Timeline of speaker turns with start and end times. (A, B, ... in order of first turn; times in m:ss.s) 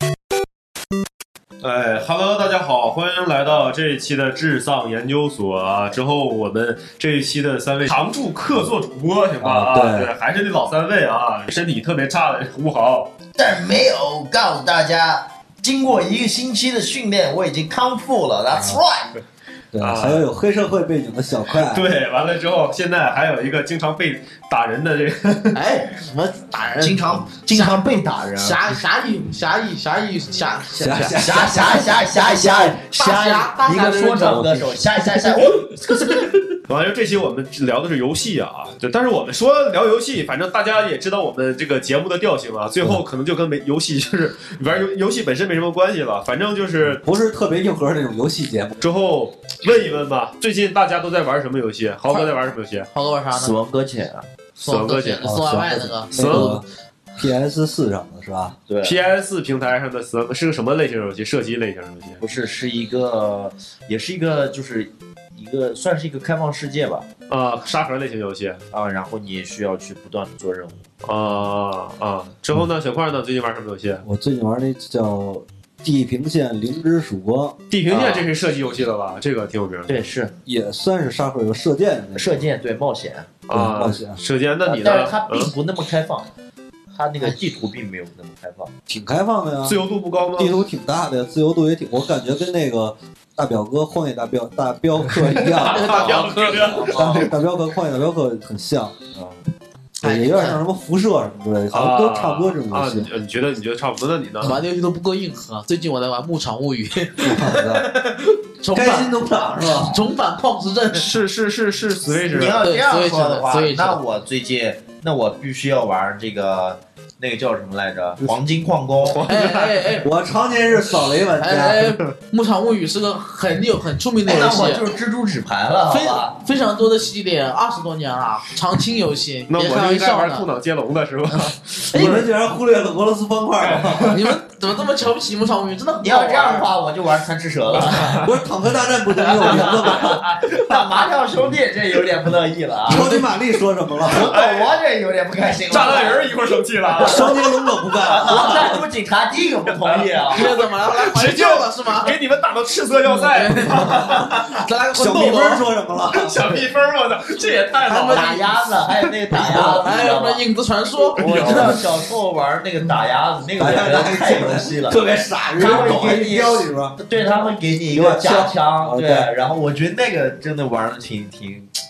0:01.6-0:13.1 A
0:09.4-0:10.1 B
0:13.3-0:19.1 C
0:18.5-0:18.8 B
0:19.7-0:21.9 B
0:19.8-0:20.2 A
0:21.6-0:25.6 A
0:25.5-0:31.2 D
0:26.8-0:28.6 C
0:30.7-0:32.8 B
0:31.2-0:36.3 C
0:32.9-0:34.4 D
0:34.2-0:34.8 B
0:36.7-0:47.0 A
0:46.9-0:48.8 B
0:48.8-0:52.9 A
0:52.9-0:53.6 D
0:53.3-0:54.3 C
0:54.6-0:55.3 A
0:54.6-0:56.6 D
0:55.2-0:56.6 B
0:56.1-0:56.6 A
0:57.1-0:58.6 B
0:58.7-0:59.0 C
0:58.8-1:02.2 A
1:02.2-1:07.0 C
1:07.3-1:08.6 A
1:08.7-1:10.9 C
1:11.0-1:14.0 A
1:14.0-1:17.6 B
1:17.7-1:20.0 A
1:17.9-1:18.3 C
1:19.9-1:20.3 C
1:20.4-1:22.4 B
1:22.1-1:23.4 C
1:23.5-1:25.5 A
1:23.5-1:24.2 B
1:24.6-1:26.3 C
1:26.9-1:28.7 C
1:28.9-1:29.8 B
1:29.6-1:30.5 A
1:30.4-1:39.0 B
1:35.4-1:37.3 A
1:35.6-1:36.9 D
1:36.8-1:37.3 C
1:40.0-1:40.6 D
1:40.0-1:43.1 B
1:41.7-1:44.6 A
1:44.4-1:51.1 D
1:47.2-1:47.9 B
1:48.7-1:50.0 B
1:50.9-1:52.6 A
1:52.2-1:59.2 C
1:52.6-1:54.0 D
1:59.1-2:00.0 A
1:59.3-2:00.1 D
2:00.0-2:02.0 B
2:01.4-2:04.8 D
2:04.2-2:06.4 C
2:05.9-2:10.4 D
2:09.5-2:12.3 A
2:11.5-2:12.2 D
2:11.9-2:14.2 B
2:13.7-2:14.1 A
2:14.1-2:16.7 D
2:16.0-2:18.2 C
2:17.8-2:20.2 B
2:17.8-2:18.3 A
2:19.2-2:21.1 A
2:19.3-2:23.1 C
2:22.8-2:24.3 B
2:22.9-2:23.3 D
2:24.0-2:30.5 C
2:24.0-2:24.7 A
2:25.7-2:27.5 A
2:27.0-2:28.8 B
2:29.7-2:34.5 A
2:30.3-2:32.1 D
2:33.0-2:35.6 D
2:34.9-2:36.6 B
2:36.1-2:39.8 A
2:37.8-2:38.6 D
2:38.1-2:40.4 C
2:39.3-2:41.8 D
2:41.2-2:45.0 C
2:41.2-2:41.8 A
2:41.4-2:41.8 B
2:43.6-2:46.9 B
2:45.5-2:51.7 C
2:47.9-2:49.3 B